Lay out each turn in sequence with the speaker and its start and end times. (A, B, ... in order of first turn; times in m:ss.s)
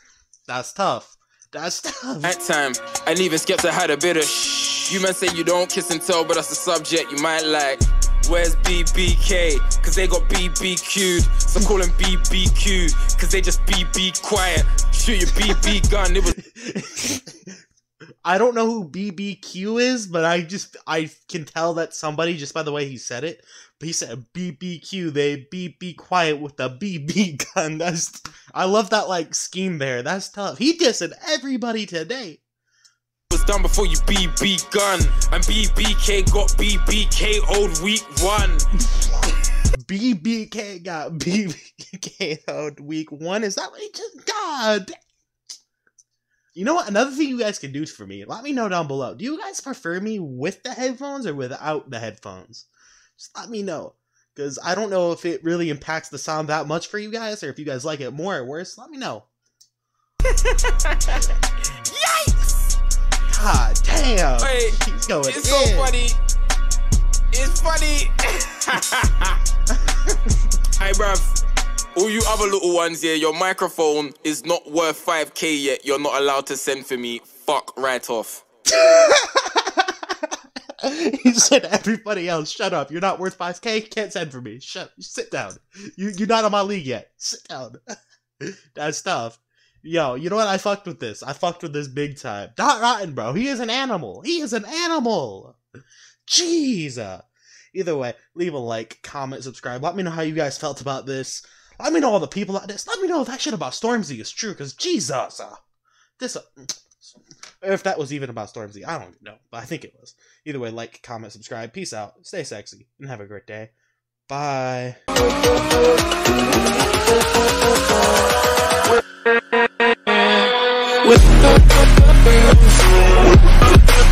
0:00.5-0:02.3 A
0:02.2-0:16.3 B
0:16.3-0:17.4 A
0:18.2-0:32.4 A
0:33.3-0:38.7 B
0:39.7-0:44.9 A
0:46.5-0:59.3 A
1:00.4-1:01.3 B
1:01.8-1:02.7 B
1:03.3-1:05.9 A
1:04.4-1:06.2 B
1:07.3-1:09.4 B
1:10.8-1:11.4 B
1:11.9-1:18.4 B
1:18.7-1:19.9 A
1:20.8-1:27.8 A
1:28.7-1:35.6 A
1:36.3-1:45.6 A
1:46.2-1:53.7 A
1:54.3-1:55.0 A